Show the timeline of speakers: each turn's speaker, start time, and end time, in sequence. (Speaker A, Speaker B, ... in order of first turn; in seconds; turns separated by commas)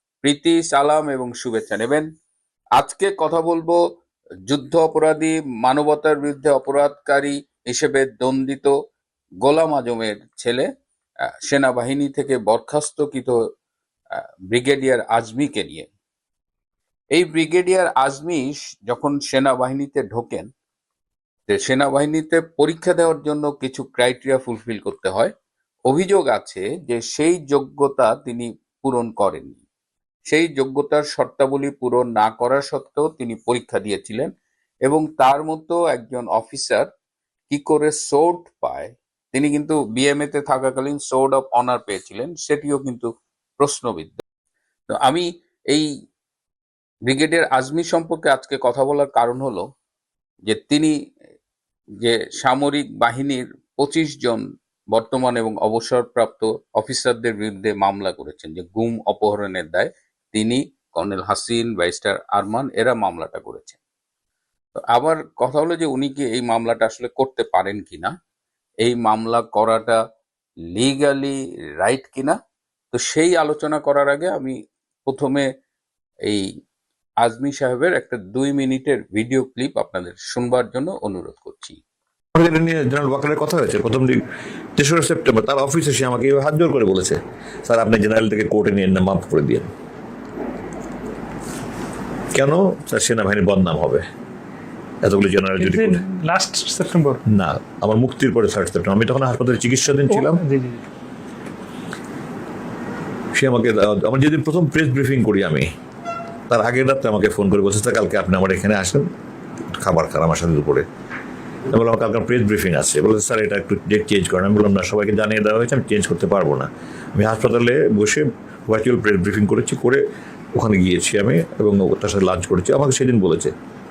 Speaker A: 0.2-2.1, Speaker A: 2.8-3.8, Speaker A: 4.5-8.7, Speaker A: 9.4-10.7, Speaker A: 11.4-13.4, Speaker A: 14.5-15.9, Speaker A: 17.1-20.5, Speaker A: 21.5-25.3, Speaker A: 25.9-29.6, Speaker A: 30.3-34.3, Speaker A: 34.9-36.9, Speaker A: 37.5-44.2, Speaker A: 44.9-45.9, Speaker A: 47.1-49.7, Speaker A: 50.5-51.0, Speaker A: 52.0-63.8, Speaker A: 64.9-68.1, Speaker A: 68.8-70.0, Speaker A: 70.7-72.4, Speaker A: 72.9-75.5, Speaker A: 77.2-81.8, Speaker B: 82.3-84.2, Speaker B: 84.8-89.7, Speaker B: 92.3-94.0, Speaker B: 95.0-96.0, Speaker C: 95.6-97.2, Speaker B: 97.3-100.4, Speaker C: 100.1-100.8, Speaker B: 103.3-105.7, Speaker B: 106.5-109.1, Speaker B: 109.7-110.9, Speaker B: 111.7-120.0, Speaker B: 120.5-123.5